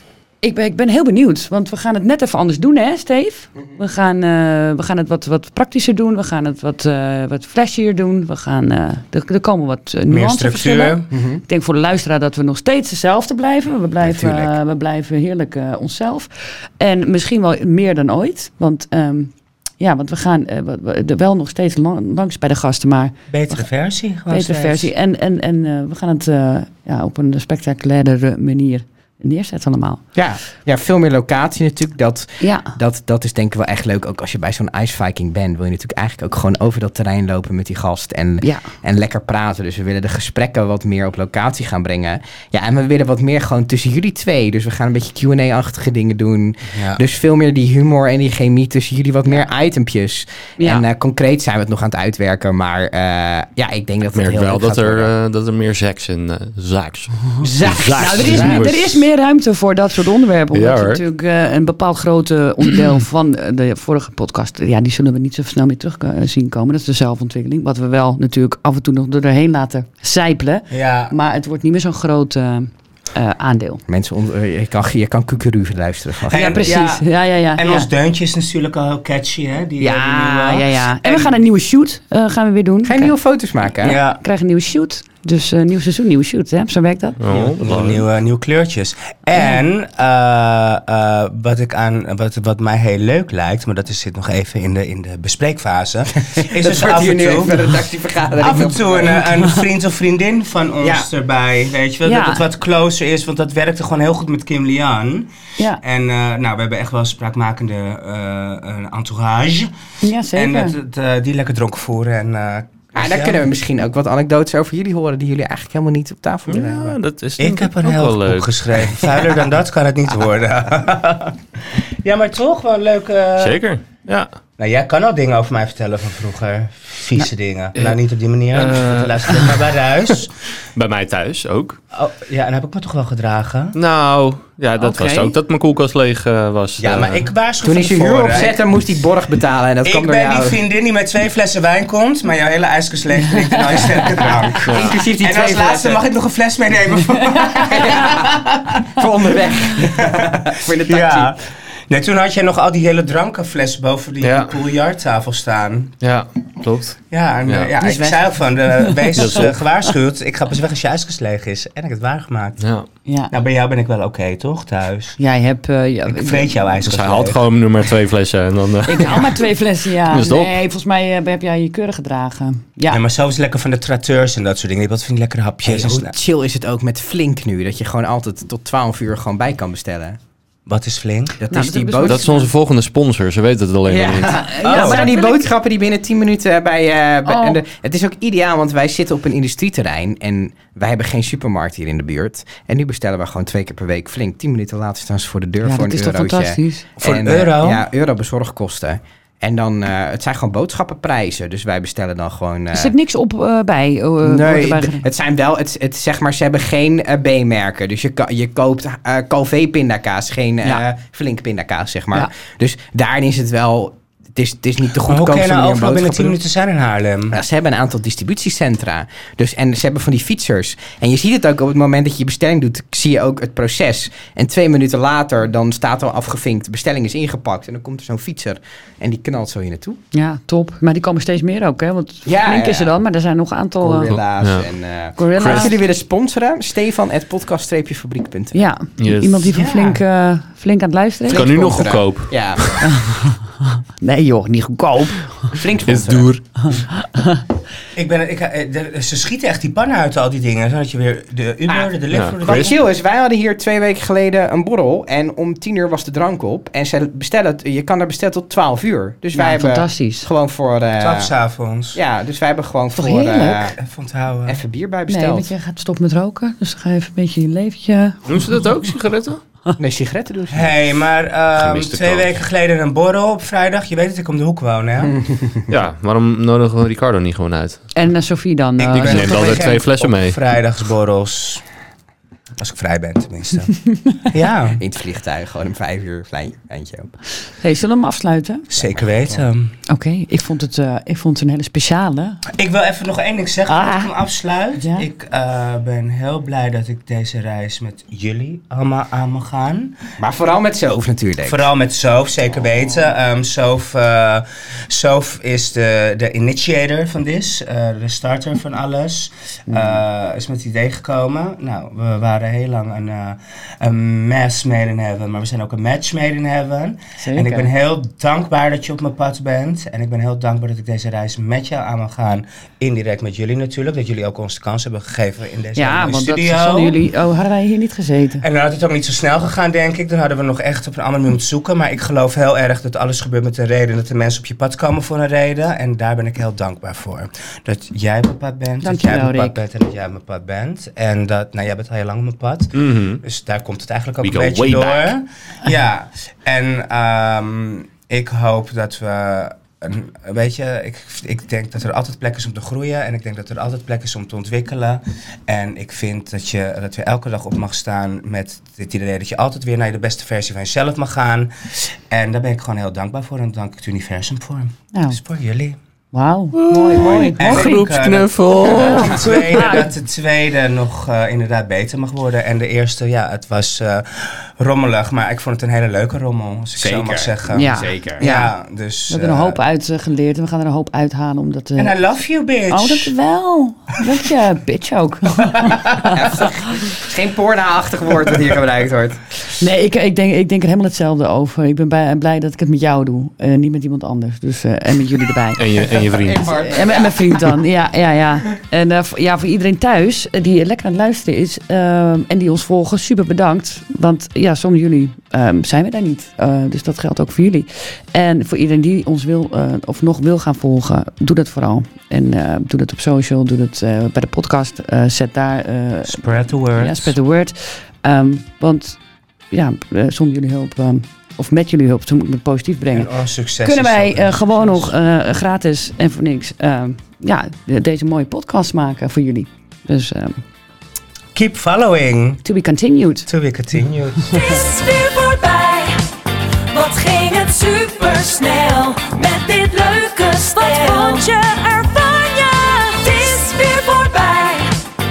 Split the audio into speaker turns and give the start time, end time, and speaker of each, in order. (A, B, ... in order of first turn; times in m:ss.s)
0:00.4-0:23.7 A
0:10.1-0:11.1 B
0:11.1-0:11.4 C
0:14.0-0:14.6 C
0:23.3-0:24.9 B
0:24.3-0:30.0 A
0:30.2-0:55.1 C
0:32.4-0:32.7 A
0:38.4-0:38.7 A
0:46.7-0:47.0 B
0:50.6-0:50.9 A
0:54.1-0:59.1 D
0:57.4-0:58.6 C
0:58.0-1:13.8 A
1:00.5-1:01.0 D
1:10.7-1:11.1 B
1:13.9-1:16.8 C
1:16.3-1:21.3 B
1:16.3-1:17.9 A
1:19.8-1:23.2 A
1:22.8-1:24.0 C
1:23.8-1:27.2 A
1:23.8-1:24.2 B
1:27.2-1:28.0 D
1:27.6-1:37.7 B
1:36.2-1:39.3 C
1:38.4-1:49.7 B
1:40.8-1:41.1 C
1:42.0-1:42.4 A
1:50.0-1:50.8 A
1:50.3-1:53.5 B
1:53.0-1:57.0 C
1:56.5-1:59.4 D
1:57.4-2:01.4 B
2:02.0-2:03.6 B
2:03.4-2:04.3 D
2:04.6-2:10.3 B
2:08.5-2:09.7 D
2:10.8-2:11.8 D
2:11.9-2:13.8 B
2:13.8-2:17.3 D
2:14.8-2:15.4 A
2:16.8-2:18.6 B
2:17.6-2:20.6 C
2:19.8-2:28.9 B
2:23.2-2:24.5 A
2:24.2-2:26.0 C
2:24.6-2:25.0 D
2:27.4-2:27.9 A
2:27.6-2:28.4 C
2:29.0-2:31.4 C
2:29.8-2:35.9 B
2:34.2-2:34.6 D
2:36.0-2:37.7 D
2:37.1-2:42.6 B
2:37.8-2:38.2 A
2:38.8-2:39.1 A
2:39.2-2:39.6 D
2:42.6-2:42.9 D
2:43.1-2:43.3 A
2:43.3-2:45.2 B
2:45.2-2:46.6 A
2:46.1-2:47.4 B
2:46.9-2:49.4 D
2:48.9-2:53.0 A
2:50.1-2:50.5 D
2:52.9-2:56.1 B
2:55.6-3:00.2 C
3:00.7-3:01.4 B
3:01.4-3:02.2 C
3:01.5-3:02.5 A
3:02.0-3:04.4 D
3:03.8-3:22.9 C
3:04.5-3:05.5 A
3:04.6-3:05.1 B
3:07.3-3:07.6 A
3:15.6-3:16.9 A
3:17.0-3:17.8 B
3:22.7-3:25.1 A
3:24.2-3:36.4 C
3:35.0-3:37.4 B
3:37.3-3:50.0 C
3:50.1-3:54.2 A
3:52.2-3:53.0 C
3:53.8-3:58.6 C
3:54.4-3:54.7 D
3:55.2-3:55.7 A
3:55.4-3:55.7 D
3:58.5-4:01.5 A
3:59.0-3:59.5 D
3:59.5-4:00.0 B
4:01.3-4:02.8 C
4:01.3-4:02.8 D
4:02.8-4:05.6 A
4:05.5-4:06.3 C
4:05.9-4:06.7 D
4:06.7-4:07.4 A
4:08.0-4:12.8 B
4:11.7-4:21.3 C
4:12.1-4:12.7 D
4:19.3-4:20.3 A
4:21.0-4:22.0 B
4:21.9-4:23.8 C
4:22.9-4:23.7 A
4:23.8-4:24.6 B
4:24.4-4:25.5 C
4:25.1-4:28.8 A
4:28.3-4:29.4 D
4:29.8-4:30.8 C
4:30.5-4:35.2 B
4:31.6-4:32.4 D
4:35.7-4:37.9 D
4:38.0-4:39.6 A
4:38.8-4:41.6 B
4:38.9-4:40.4 D
4:42.6-4:44.8 B
4:44.8-4:47.1 C
4:47.6-4:48.6 A
4:48.7-4:49.8 B
4:48.8-4:49.4 C
4:49.9-4:52.4 A
4:52.6-5:00.0 B
4:53.7-4:54.1 A
4:54.8-4:55.1 A
5:00.2-5:01.7 C
5:01.4-5:27.0 B
5:09.7-5:10.0 A
5:17.2-5:17.7 A
5:25.8-5:28.4 A
5:28.4-6:05.8 B
5:38.8-5:39.6 A
5:42.8-5:43.2 D
5:44.2-5:45.1 D
6:04.9-6:05.2 A
6:06.1-6:07.9 A
6:06.6-6:09.8 D
6:06.9-6:19.6 B
6:09.0-6:09.9 A
6:16.8-6:18.2 C
6:17.5-6:18.5 A
6:19.1-6:22.0 A
6:21.8-6:23.1 B
6:22.7-6:26.9 A
6:25.4-6:26.0 B
6:26.1-6:29.2 C
6:29.4-6:59.0 A
6:35.6-6:36.5 D
6:35.9-6:37.6 C
6:56.1-6:57.1 B
6:59.5-7:03.1 A
7:02.9-7:04.9 B
7:03.6-7:10.4 A
7:11.4-7:12.4 B
7:12.4-7:13.3 A
7:13.3-7:14.6 B
7:14.2-7:24.8 E